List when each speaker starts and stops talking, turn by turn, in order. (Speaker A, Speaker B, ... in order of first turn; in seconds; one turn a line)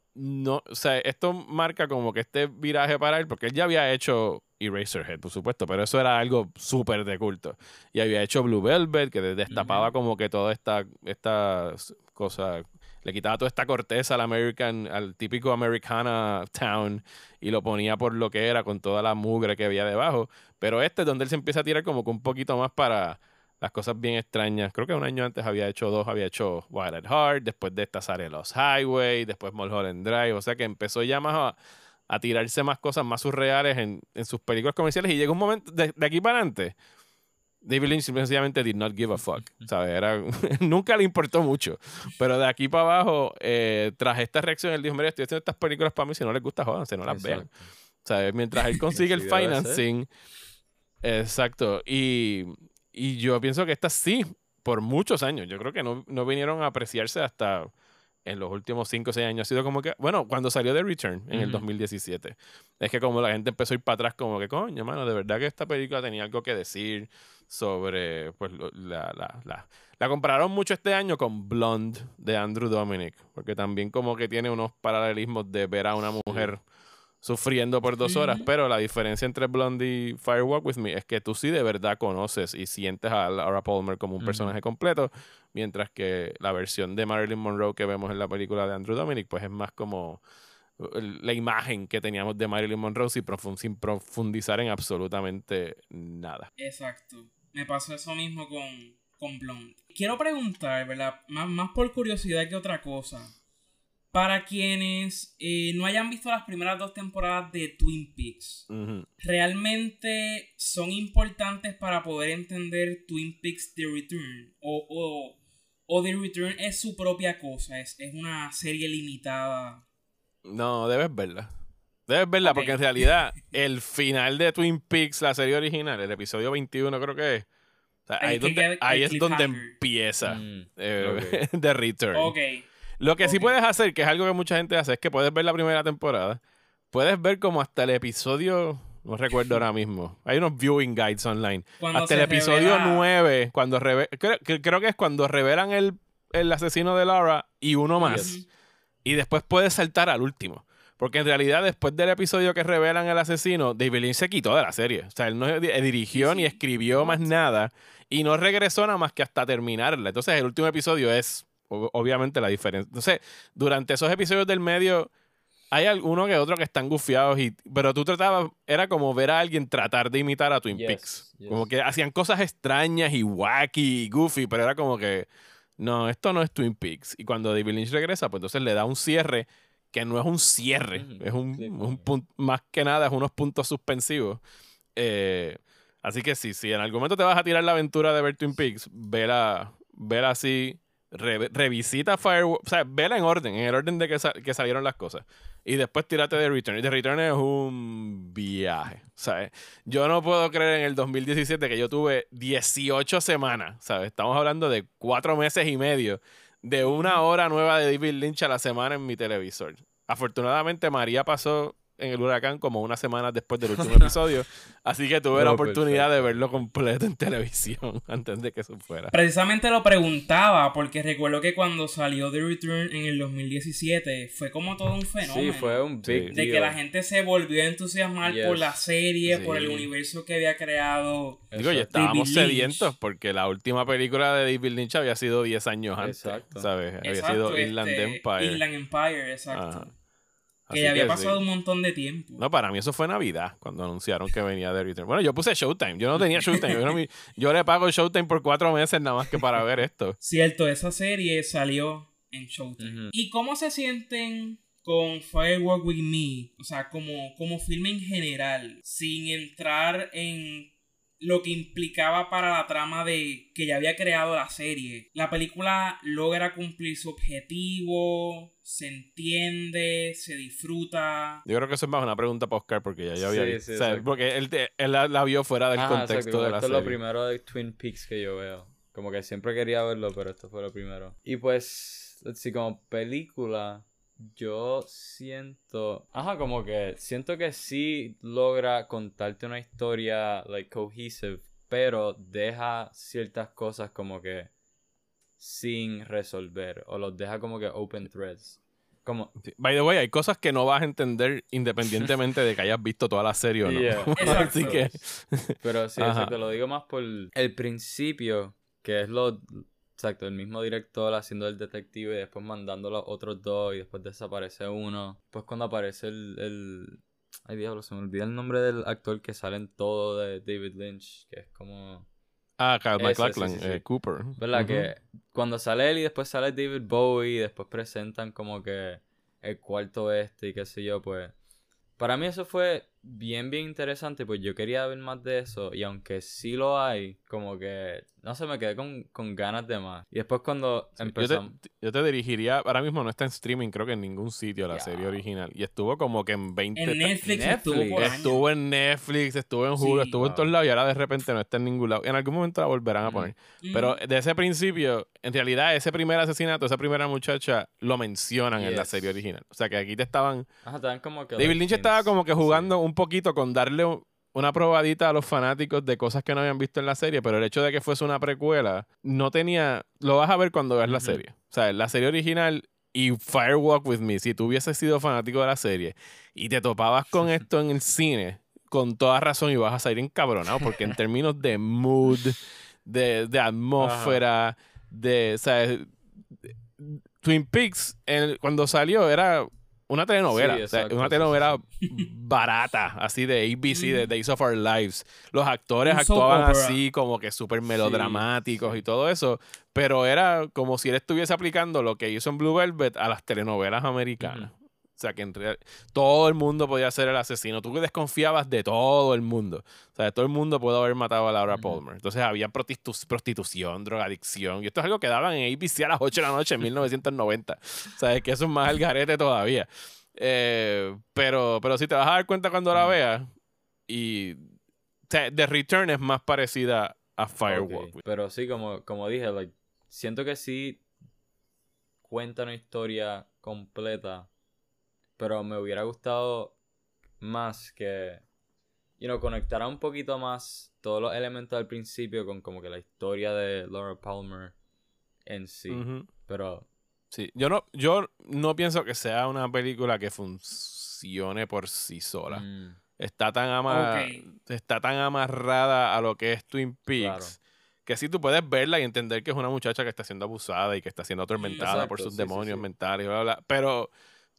Speaker A: 0.1-31.6
Speaker B: 9.5-9.9
Speaker A: 32.1-36.8
Speaker A: 37.6-47.5
Speaker B: 39.4-39.7
Speaker B: 47.0-47.7
Speaker A: 48.0-50.1
Speaker B: 48.9-49.8
Speaker A: 51.0-57.7
Speaker A: 58.2-76.6
Speaker B: 61.3-61.7
Speaker B: 76.3-76.5
Speaker A: 77.2-90.2
Speaker C: 78.0-78.5
Speaker B: 84.2-84.5
Speaker A: 90.8-96.5
Speaker C: 96.6-103.3
Speaker C: 104.1-108.7
Speaker A: 108.7-109.1
Speaker C: 109.2-119.8
Speaker A: 120.5-121.5
Speaker A: 122.1-127.5
Speaker C: 122.4-123.1
Speaker A: 128.1-132.3
Speaker C: 128.2-129.8
Speaker B: 130.2-131.4
Speaker C: 132.1-132.7
Speaker A: 133.0-136.4
Speaker C: 133.2-133.6
Speaker A: 136.9-148.4
Speaker C: 141.8-143.1
Speaker C: 148.0-148.5
Speaker B: 148.0-148.4
Speaker A: 149.1-165.1
Speaker C: 156.1-157.3
Speaker A: 165.7-184.4
Speaker B: 170.7-171.7
Speaker B: 180.9-182.1
Speaker A: 185.0-219.1
Speaker B: 213.8-214.1
Speaker B: 215.3-216.5
Speaker C: 219.1-232.9
Speaker B: 225.2-226.8
Speaker A: 226.0-226.3
Speaker B: 228.2-229.9
Speaker A: 229.4-229.6
Speaker B: 231.5-231.9
Speaker A: 231.6-238.6
Speaker B: 236.0-236.7
Speaker C: 237.0-239.9
Speaker A: 239.5-239.9
Speaker A: 240.7-241.4
Speaker C: 240.7-242.4
Speaker A: 242.4-250.2
Speaker C: 250.2-271.4
Speaker B: 252.8-253.1
Speaker A: 271.5-277.0
Speaker B: 273.2-274.1
Speaker B: 275.8-294.5
Speaker B: 295.4-299.4
Speaker A: 299.4-306.3
Speaker B: 303.6-305.0
Speaker C: 304.2-304.8
Speaker B: 305.6-322.1
Speaker A: 322.6-324.9
Speaker B: 323.0-323.9
Speaker B: 324.4-331.3
Speaker B: 332.0-341.6
Speaker A: 341.0-360.5
Speaker B: 344.7-345.3
Speaker C: 346.8-348.4
Speaker B: 347.2-348.2
Speaker C: 349.8-350.2
Speaker B: 350.2-350.5
Speaker B: 353.1-353.3
Speaker C: 353.6-354.0
Speaker B: 358.6-359.1
Speaker B: 360.6-362.8
Speaker A: 361.4-385.9
Speaker B: 370.9-371.2
Speaker B: 383.8-384.2
Speaker A: 386.4-423.3
Speaker B: 390.3-391.6
Speaker C: 393.7-394.1
Speaker C: 395.9-396.8
Speaker B: 397.8-398.8
Speaker B: 404.2-404.5
Speaker B: 411.5-411.8
Speaker B: 422.7-423.0
Speaker A: 423.9-424.5
Speaker A: 425.1-428.0
Speaker B: 427.5-430.8
Speaker B: 432.0-434.3
Speaker B: 435.2-436.6
Speaker B: 437.2-438.2
Speaker B: 439.0-444.5
Speaker B: 445.3-446.7
Speaker A: 445.7-446.1
Speaker A: 447.1-452.4
Speaker B: 452.3-452.8
Speaker A: 453.0-463.9
Speaker C: 453.7-454.3
Speaker B: 456.9-457.4
Speaker C: 461.4-461.8
Speaker B: 461.6-462.7